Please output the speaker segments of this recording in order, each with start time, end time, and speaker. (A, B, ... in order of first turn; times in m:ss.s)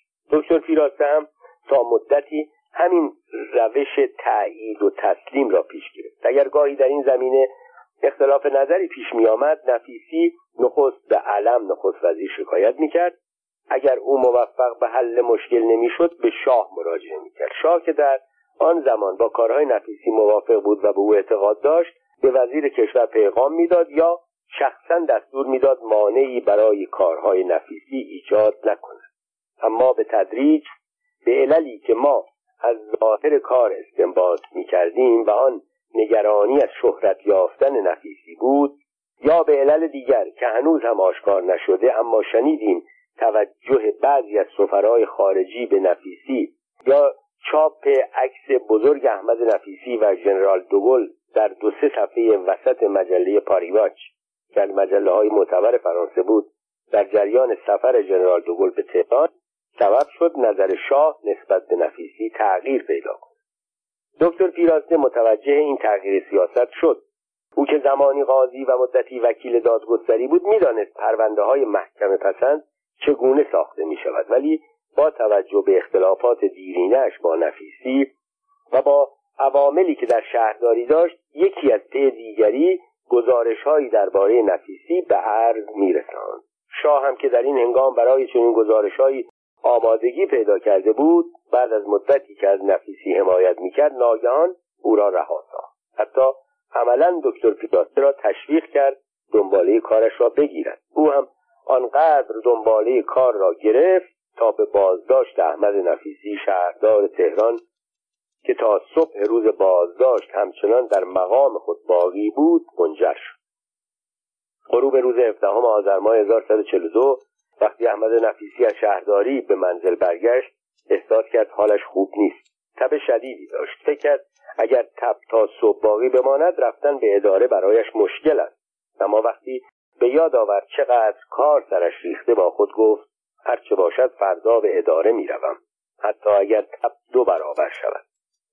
0:00.3-0:07.5 A
0:08.0-0:13.2 A
0:13.7-0:29.0 A
0:29.6-0:30.6 A
0:31.2-1:03.3 A
1:04.2-1:07.0 A
1:07.6-1:18.1 A
1:18.7-1:47.6 A
1:48.4-1:53.4 A
1:54.7-2:18.0 A